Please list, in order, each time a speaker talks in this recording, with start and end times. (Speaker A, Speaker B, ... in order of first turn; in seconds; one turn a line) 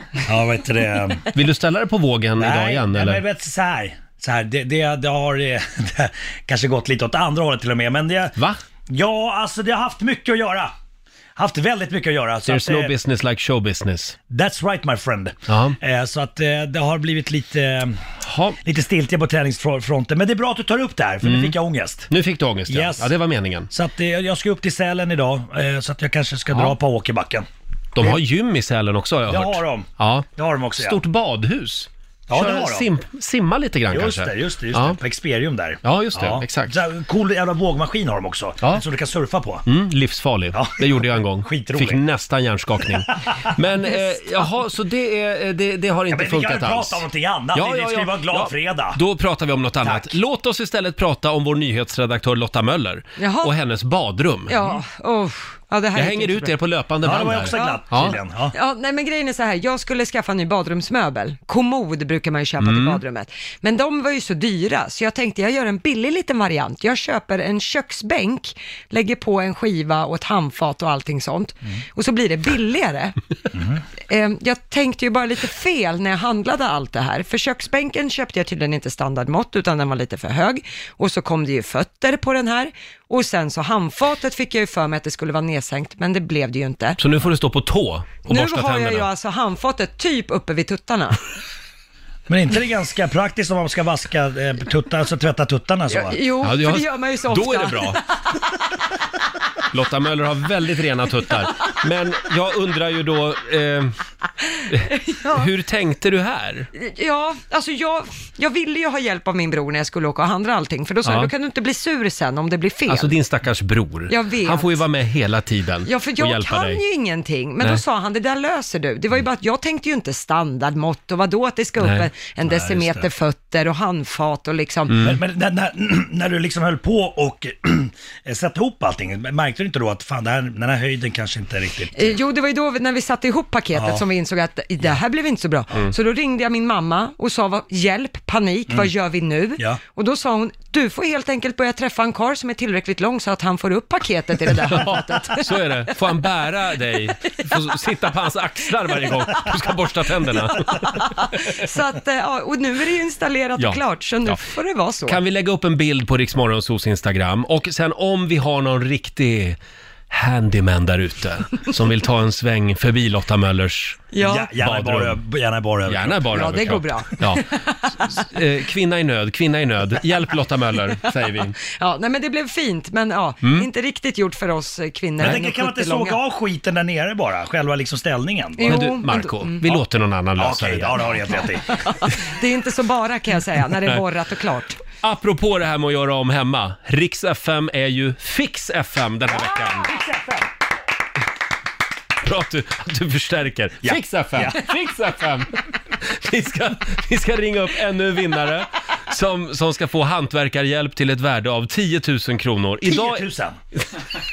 Speaker A: 0.2-1.3
Speaker B: 1.3-3.2
Speaker A: 2.4-8.4
Speaker A: 8.9-10.7
Speaker A: 11.3-12.9
Speaker B: 12.4-14.2
Speaker A: 14.3-18.0
Speaker B: 15.5-15.8
Speaker B: 18.2-18.6
Speaker A: 18.6-22.1
Speaker B: 21.2-21.6
Speaker B: 22.1-23.7
Speaker A: 22.7-23.1
Speaker A: 23.7-27.5
Speaker B: 27.9-35.0
Speaker A: 29.3-31.0
Speaker A: 32.3-32.9
Speaker A: 33.9-39.6
Speaker B: 35.8-36.7
Speaker B: 39.6-47.0
Speaker A: 40.5-40.9
Speaker A: 41.4-42.0
Speaker A: 46.1-49.0
Speaker B: 47.5-54.6
Speaker A: 49.8-50.1
Speaker C: 53.2-53.5
Speaker C: 54.5-56.5
Speaker B: 55.9-58.1
Speaker A: 57.0-58.5
Speaker C: 57.5-57.8
Speaker C: 58.5-73.2
Speaker B: 62.6-63.0
Speaker A: 73.5-73.8
Speaker C: 74.1-87.0
Speaker B: 87.0-89.1
Speaker C: 88.2-91.2
Speaker A: 92.3-96.2
Speaker C: 95.9-98.0
Speaker B: 96.4-98.0
Speaker B: 99.7-103.9
Speaker B: 104.7-106.7
Speaker C: 105.1-105.4
Speaker C: 106.7-113.2
Speaker B: 111.0-111.3
Speaker B: 112.9-116.8
Speaker C: 114.1-114.8
Speaker C: 115.9-125.0
Speaker B: 121.8-122.1
Speaker A: 122.4-123.1
Speaker B: 124.9-125.2
Speaker A: 125.0-132.2
Speaker C: 131.9-145.6
Speaker A: 133.7-134.0
Speaker B: 144.6-151.6
Speaker C: 150.7-155.2
Speaker B: 153.6-154.4
Speaker B: 155.1-159.6
Speaker B: 160.1-165.2
Speaker C: 164.1-164.5
Speaker A: 164.2-166.7
Speaker B: 165.9-171.6
Speaker C: 166.3-167.9
Speaker C: 171.6-176.2
Speaker A: 175.2-178.8
Speaker C: 178.6-179.6
Speaker B: 178.6-181.2
Speaker A: 180.4-181.8
Speaker C: 181.9-184.8
Speaker B: 185.0-189.9
Speaker A: 189.3-190.5
Speaker B: 192.2-203.9
Speaker A: 193.8-194.7
Speaker A: 202.8-203.6